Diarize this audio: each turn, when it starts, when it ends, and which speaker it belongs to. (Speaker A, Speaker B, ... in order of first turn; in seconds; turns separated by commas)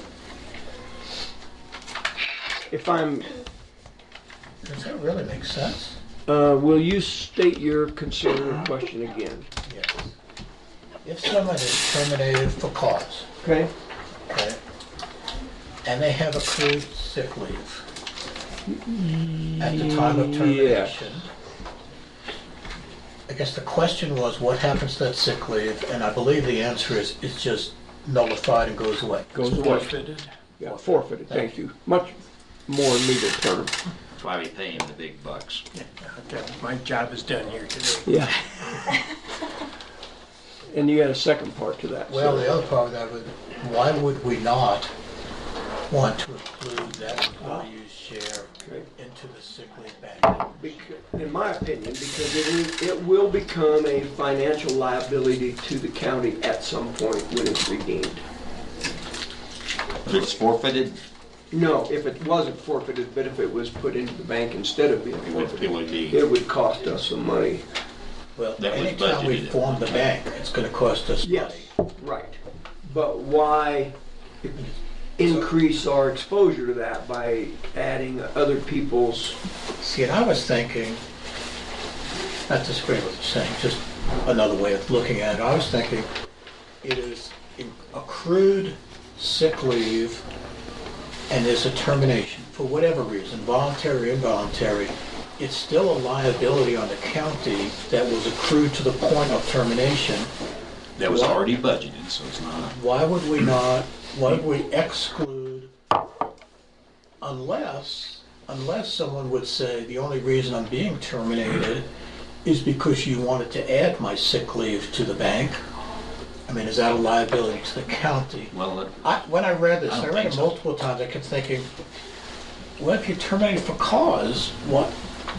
Speaker A: 2.7-3.3, Speaker B: 4.6-6.0, Speaker A: 6.3-9.5, Speaker B: 9.7-10.1, Speaker B: 11.0-13.2, Speaker A: 13.4-13.7, Speaker B: 14.3-14.6, Speaker B: 15.8-17.9, Speaker A: 18.7-21.1, Speaker B: 19.6-21.3, Speaker B: 23.3-30.1, Speaker A: 29.3-29.9, Speaker C: 29.8-30.2, Speaker A: 30.6-33.7, Speaker B: 30.6-31.6, Speaker D: 34.2-35.6, Speaker C: 35.8-38.1, Speaker A: 38.0-38.4, Speaker A: 40.7-42.6, Speaker B: 42.1-44.9, Speaker B: 45.9-50.7, Speaker A: 50.5-58.2, Speaker D: 60.0-61.0, Speaker A: 61.5-67.6, Speaker D: 65.2-66.2, Speaker B: 68.3-71.7, Speaker D: 68.6-69.9, Speaker A: 71.2-73.9, Speaker B: 74.5-75.5, Speaker A: 75.2-79.4, Speaker B: 79.8-81.0, Speaker B: 82.5-86.1, Speaker B: 86.8-90.2, Speaker B: 91.3-100.3, Speaker D: 101.0-102.8, Speaker B: 101.0-101.4, Speaker B: 102.7-105.7, Speaker B: 107.2-111.9, Speaker B: 112.4-115.6, Speaker B: 116.5-121.7, Speaker D: 118.5-119.0, Speaker D: 119.9-120.5, Speaker B: 122.8-125.0